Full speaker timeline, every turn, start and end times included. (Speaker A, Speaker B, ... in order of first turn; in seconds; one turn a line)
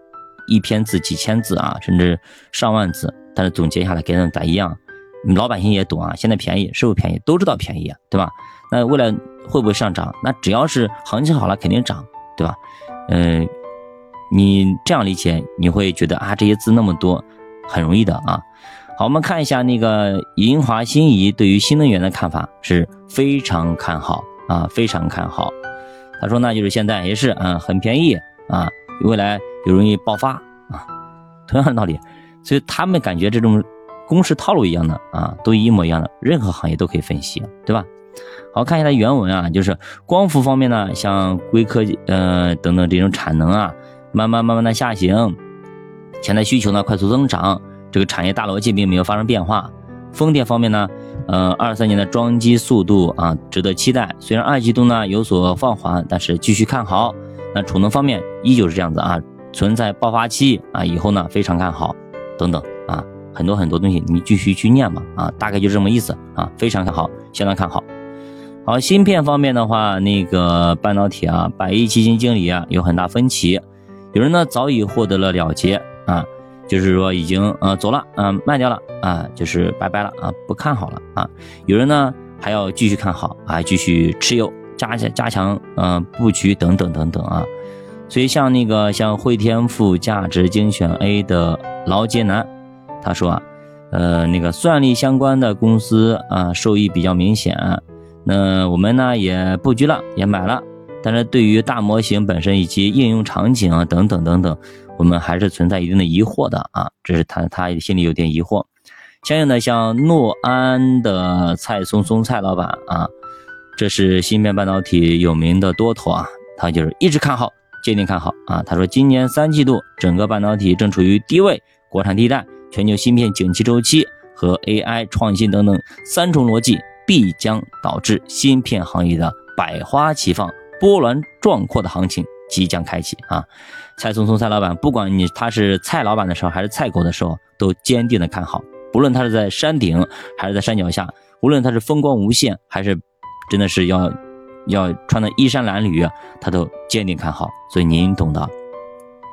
Speaker A: 0.5-13.5
Speaker A: 14.3-18.4
Speaker A: 19.0-25.5
Speaker A: 26.2-30.9
Speaker A: 31.5-37.9
Speaker A: 38.5-45.4
Speaker A: 46.2-67.8
Speaker A: 68.6-87.5
Speaker A: 88.1-92.5
Speaker A: 93.0-108.7
Speaker A: 109.2-113.1
Speaker A: 113.8-148.5